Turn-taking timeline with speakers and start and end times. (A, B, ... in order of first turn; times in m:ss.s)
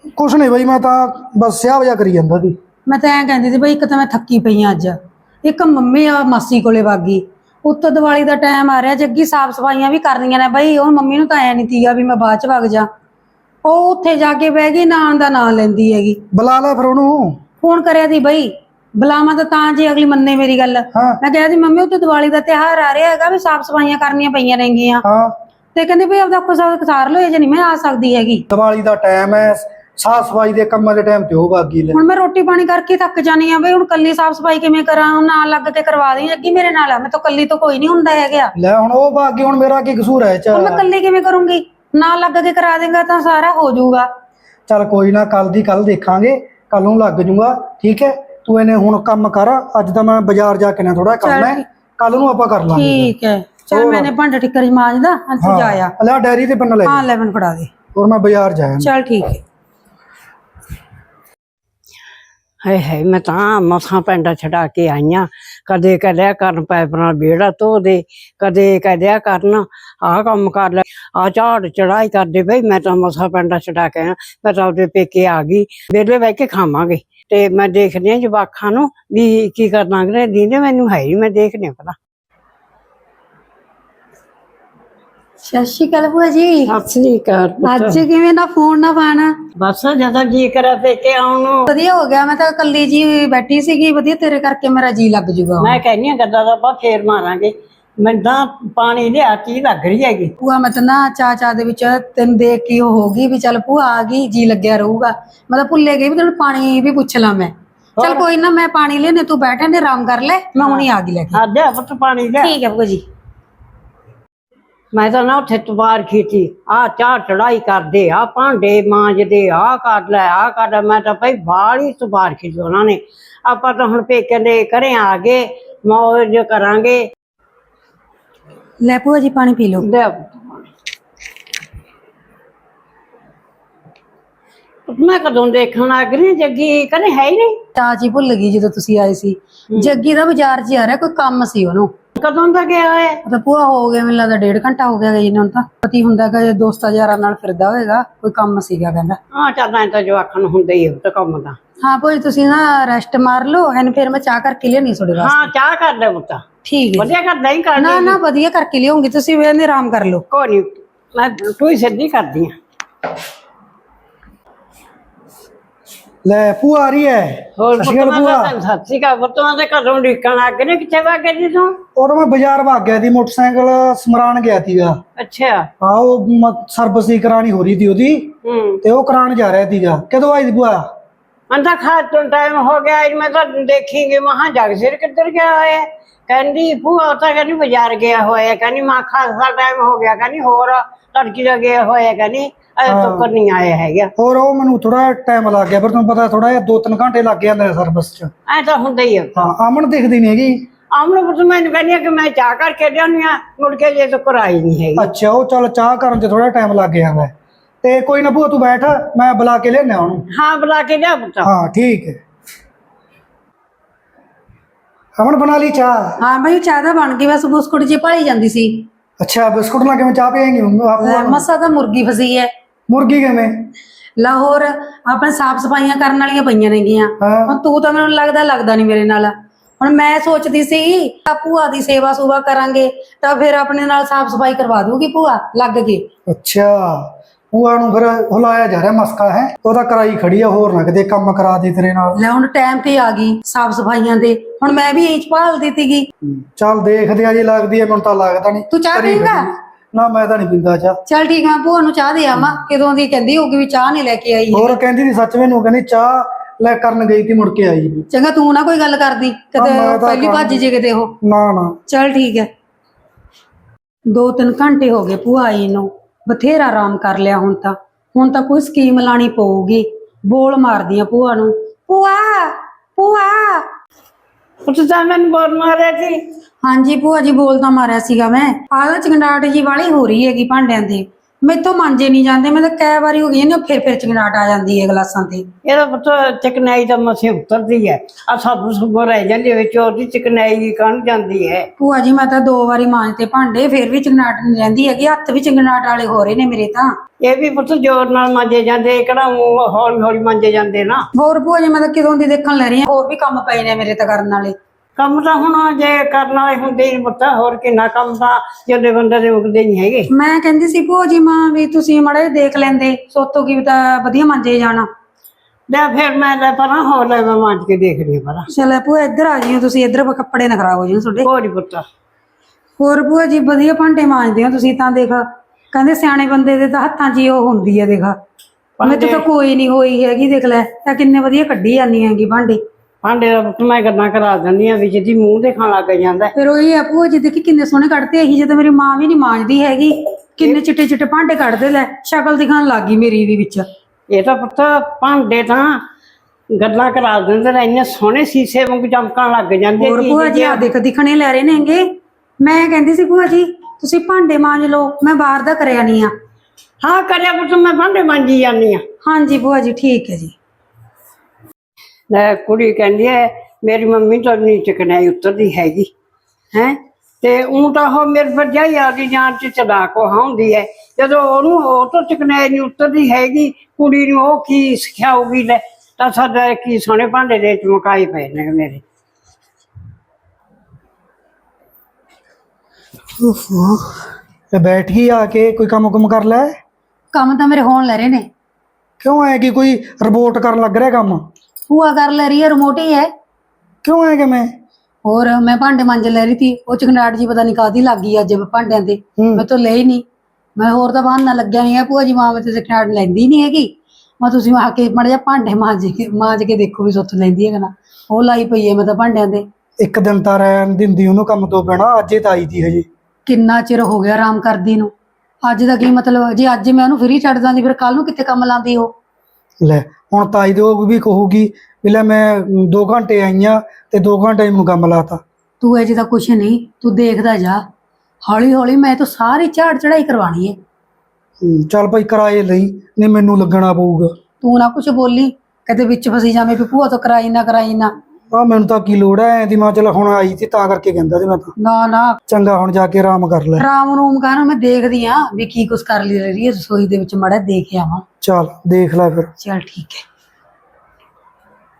0:00.2-0:02.6 A
0:02.9-0:12.9 B
0:13.6-0:16.2 B
0:16.3-0:17.4 A
0:17.6-0:25.0 B
0:20.9-0:21.2 A
0:25.0-0:25.3 A
0:25.7-0:28.4 B
0:28.5-0:32.0 A
0:31.9-0:38.5 B
0:38.6-0:40.8 A
0:40.5-0:44.1 B
0:44.7-0:53.1 A
0:51.2-0:51.6 B
0:52.7-0:55.9 B
0:53.7-0:54.1 A
0:55.4-0:57.0 A
0:56.8-0:57.7 B
0:57.9-0:58.9 A
0:58.8-0:59.4 B
1:02.6-1:22.0 C
1:25.4-1:26.7 B
1:26.7-1:28.0 C
1:27.6-1:29.4 B
1:29.6-1:31.7 C
1:31.7-1:35.8 B
1:35.6-1:40.3 C
1:40.4-1:51.4 B
1:48.0-1:48.2 C
1:50.6-1:52.6 C
1:52.4-1:53.0 B
1:54.9-2:07.0 C
2:08.8-2:09.8 B
2:09.8-2:10.7 C
2:14.9-2:17.6 C
2:17.7-2:21.9 B
2:19.7-2:20.0 C
2:22.2-2:23.2 C
2:23.2-2:29.2 B
2:29.3-2:31.6 C
2:31.8-2:35.5 B
2:35.2-2:36.4 C
2:36.6-2:37.1 B
2:37.0-2:38.2 C
2:37.8-2:40.2 B
2:40.3-2:42.5 C
2:46.2-2:48.5 A
2:47.6-2:51.8 C
2:51.9-2:55.0 A
2:55.2-2:55.7 C
2:55.8-3:00.9 A
2:58.4-2:58.8 C
3:01.5-3:14.1 C
3:12.8-3:13.3 A
3:14.2-3:18.3 A
3:18.5-3:19.4 C
3:19.4-3:20.6 A
3:20.9-3:25.1 C
3:25.0-3:30.2 A
3:30.3-3:31.5 C
3:31.4-3:32.2 A
3:35.2-3:36.2 A
3:36.2-3:38.8 B
3:39.2-3:41.4 A
3:41.0-3:42.5 B
3:42.9-3:43.7 A
3:44.2-3:56.0 B
3:47.2-3:47.6 A
3:56.3-4:02.2 A
4:02.2-4:06.1 B
4:06.2-4:11.0 A
4:08.7-4:09.5 B
4:11.0-4:14.8 B
4:14.5-4:18.0 A
4:18.1-4:21.1 B
4:19.6-4:20.6 A
4:21.2-4:21.8 A
4:21.9-4:22.5 B
4:24.1-4:33.6 B
4:34.6-4:36.2 C
4:36.6-4:45.4 B
4:45.6-4:51.7 C
4:51.8-4:56.9 B
4:57.2-5:01.1 C
5:01.1-5:04.5 B
5:05.0-5:10.1 C
5:10.1-5:14.9 B
5:15.7-5:18.5 C
5:18.5-5:21.3 B
5:21.2-5:21.8 C
5:22.8-5:28.2 B
5:28.8-5:29.2 C
5:28.8-5:32.6 B
5:33.0-5:36.3 C
5:36.4-5:43.6 B
5:44.1-5:45.8 C
5:46.6-5:50.7 C
5:49.8-5:51.9 B
5:52.4-5:56.1 B
5:56.8-5:58.8 C
5:59.0-6:00.3 B
6:02.1-6:05.9 C
6:06.5-6:18.8 C
6:23.2-6:24.0 A
6:24.5-6:26.5 A
6:27.1-6:28.3 B
6:29.0-6:31.2 A
6:31.7-6:33.1 B
6:33.8-6:34.5 A
6:35.0-6:40.0 B
6:39.2-6:39.4 A
6:40.6-6:49.4 B
6:49.8-6:52.8 A
6:53.2-6:54.9 B
6:55.4-6:58.9 B
6:59.6-7:05.2 A
7:05.6-7:07.6 B
7:08.2-7:10.6 B
7:11.4-7:14.1 A
7:14.4-7:17.9 B
7:18.3-7:21.5 A
7:21.6-7:22.2 B
7:22.3-7:23.6 A
7:23.6-7:28.0 B
7:28.2-7:29.3 A
7:29.4-7:30.0 B